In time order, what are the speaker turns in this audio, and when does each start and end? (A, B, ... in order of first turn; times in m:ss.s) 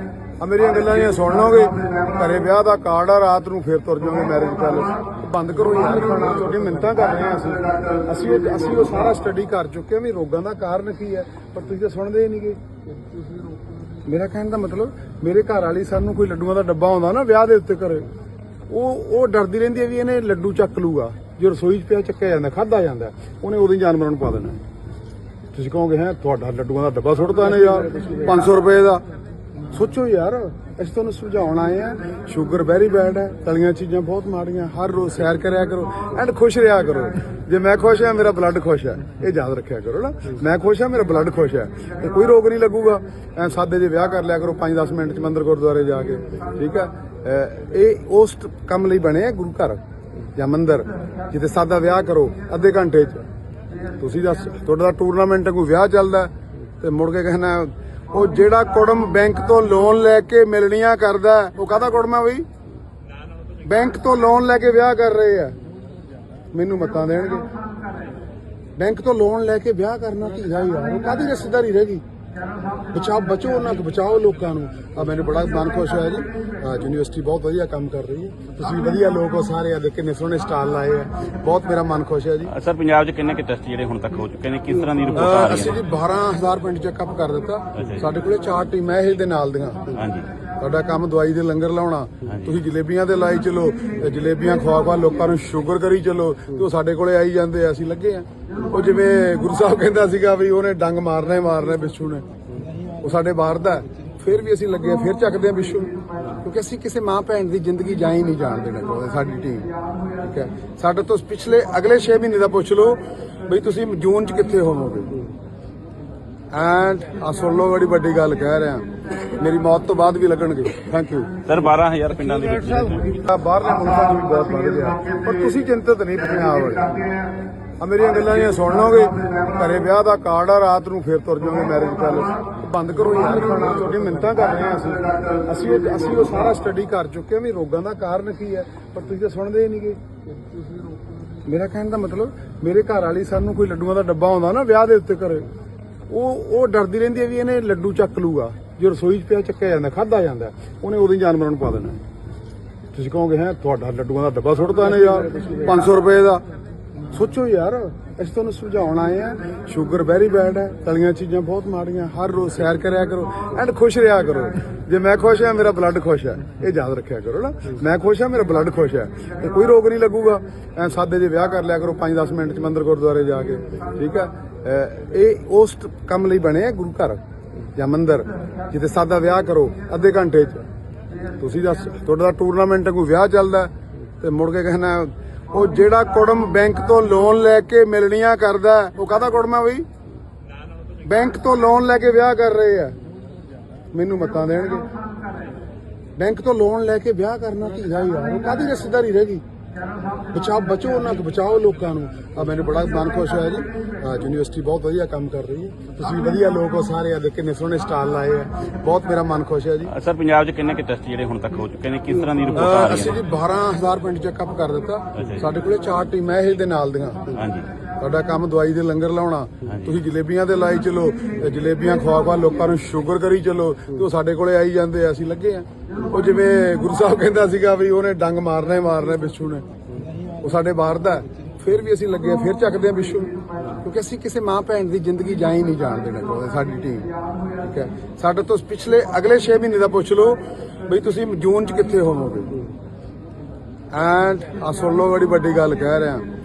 0:00.4-0:12.6 A
0:14.0-0:18.1 A
0:18.7-0:24.6 A
0:25.5-0:29.0 A
0:29.7-0:49.8 A
0:50.4-0:53.3 A
0:54.0-1:02.5 A
1:03.6-1:05.6 A
1:06.5-1:07.5 A
1:08.8-1:12.0 A
1:12.9-1:22.5 A
1:22.5-1:25.8 B
1:25.2-1:30.0 A
1:27.8-1:28.1 B
1:30.0-1:30.3 B
1:30.6-1:42.3 A
1:32.2-1:32.6 B
1:43.0-1:49.7 A
1:50.2-1:55.2 A
1:56.5-2:01.3 A
2:01.5-2:03.2 B
2:03.1-2:07.0 A
2:07.8-2:20.0 A
2:21.4-2:25.5 A
2:26.1-2:32.0 A
2:32.9-2:36.4 A
2:37.1-2:57.2 A
2:57.8-3:00.6 A
3:01.4-3:09.9 A
3:11.0-3:13.0 A
3:13.9-3:14.9 A
3:16.2-3:19.4 A
3:20.3-3:29.9 A
3:29.9-3:33.2 B
3:32.6-3:37.4 A
3:35.2-3:35.5 B
3:37.3-3:37.7 B
3:38.0-3:49.7 A
3:39.6-3:39.9 B
3:50.4-3:57.1 A
3:57.6-4:02.6 A
4:03.9-4:06.3 A